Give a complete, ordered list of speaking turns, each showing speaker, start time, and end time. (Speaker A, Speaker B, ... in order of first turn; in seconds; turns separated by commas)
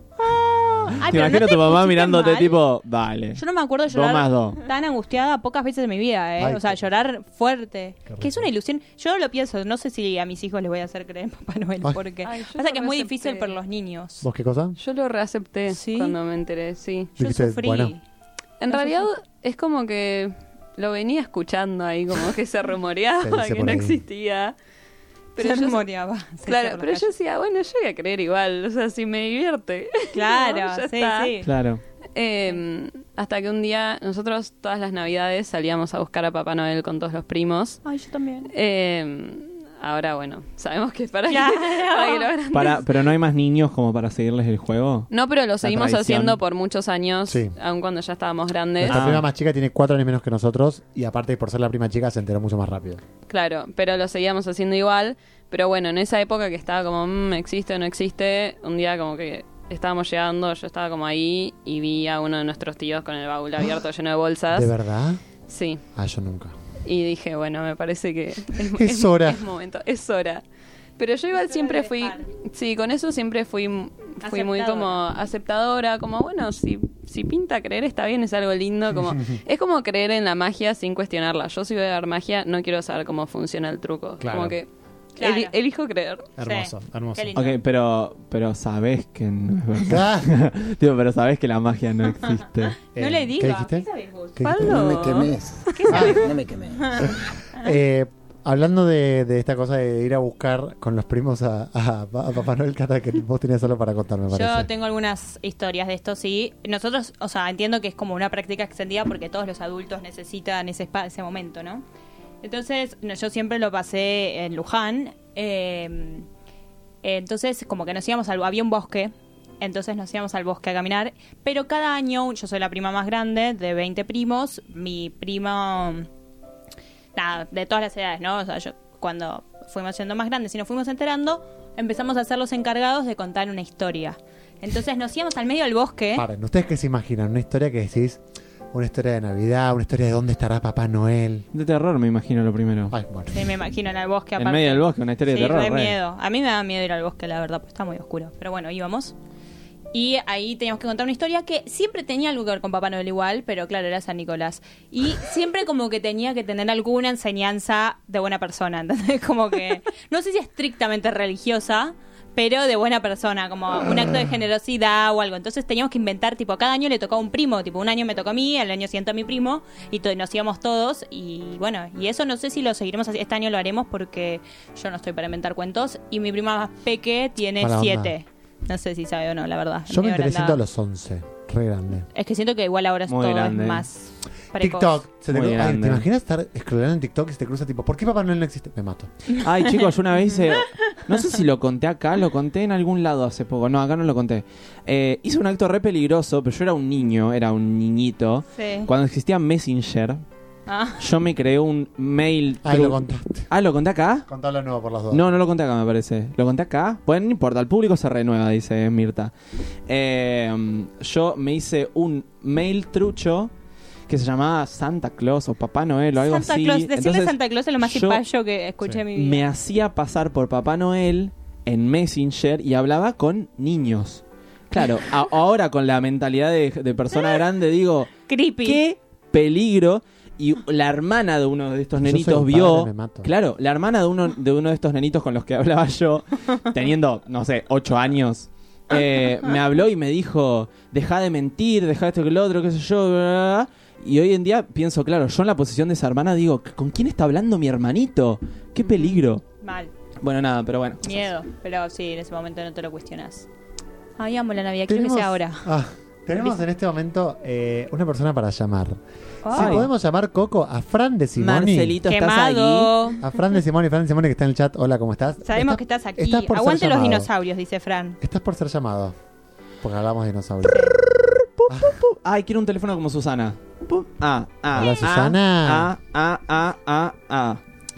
Speaker A: 0.4-1.0, Speaker B: 0.8-4.6, Speaker C: 1.0-2.6, Speaker C: 3.3-14.2, Speaker A: 6.4-6.8, Speaker A: 8.1-8.5, Speaker D: 12.2-13.5, Speaker A: 14.2-14.8, Speaker D: 14.8-17.1, Speaker C: 15.7-16.1, Speaker A: 17.2-17.9, Speaker C: 17.2-18.0, Speaker D: 18.6-24.5, Speaker C: 18.7-19.1, Speaker A: 23.2-24.0, Speaker D: 25.4-25.8, Speaker C: 25.4-27.1, Speaker D: 26.5-31.3, Speaker C: 30.1-31.5, Speaker B: 31.4-31.8, Speaker D: 32.1-37.8, Speaker C: 37.8-38.5, Speaker D: 38.5-42.8, Speaker C: 41.3-42.3, Speaker B: 42.5-45.1, Speaker D: 45.1-49.1, Speaker B: 45.6-46.4, Speaker A: 47.3-47.5, Speaker A: 48.8-53.0, Speaker B: 48.8-49.2, Speaker D: 53.3-64.7, Speaker A: 64.5-65.2, Speaker D: 65.5-65.8, Speaker A: 65.9-66.5, Speaker D: 66.8-70.4, Speaker A: 68.7-69.5, Speaker D: 71.0-86.3, Speaker C: 71.3-72.2, Speaker C: 74.2-75.0, Speaker A: 78.9-79.3, Speaker A: 84.2-84.6, Speaker C: 85.2-85.5, Speaker A: 86.4-87.3, Speaker C: 86.4-87.6, Speaker B: 87.3-92.8, Speaker A: 89.9-90.3, Speaker C: 92.9-94.6, Speaker A: 92.9-104.7, Speaker D: 94.4-96.2, Speaker C: 95.7-97.1, Speaker C: 104.3-111.8, Speaker C: 112.4-116.3, Speaker C: 117.0-126.1, Speaker C: 127.2-136.2, Speaker A: 136.1-138.2, Speaker A: 138.7-141.4, Speaker B: 141.5-142.9, Speaker A: 142.9-143.5, Speaker C: 143.3-149.1, Speaker B: 144.4-146.0, Speaker C: 149.9-180.6, Speaker A: 177.6-178.1, Speaker A: 179.9-182.1, Speaker C: 182.1-185.0, Speaker B: 183.1-183.8, Speaker A: 184.5-189.1, Speaker B: 185.3-186.1, Speaker B: 189.4-200.2, Speaker C: 198.5-198.9, Speaker C: 200.7-201.0, Speaker B: 201.0-204.3, Speaker A: 202.6-203.5, Speaker A: 204.3-205.3, Speaker B: 205.1-209.3, Speaker B: 209.9-213.5, Speaker B: 214.1-218.2, Speaker C: 216.2-219.4, Speaker B: 219.1-249.4, Speaker C: 228.3-228.8, Speaker A: 232.0-233.3, Speaker C: 248.8-249.9, Speaker B: 250.2-251.3, Speaker C: 251.0-253.5, Speaker C: 254.2-255.7, Speaker A: 254.9-259.0, Speaker C: 259.4-259.8, Speaker A: 259.5-262.0, Speaker B: 259.5-259.9, Speaker B: 261.4-262.9, Speaker C: 262.1-263.2, Speaker A: 263.2-267.3, Speaker C: 265.4-268.2, Speaker A: 268.2-269.1, Speaker A: 269.8-270.9, Speaker C: 270.6-270.9, Speaker B: 271.0-277.6, Speaker A: 271.7-272.0, Speaker A: 274.7-275.9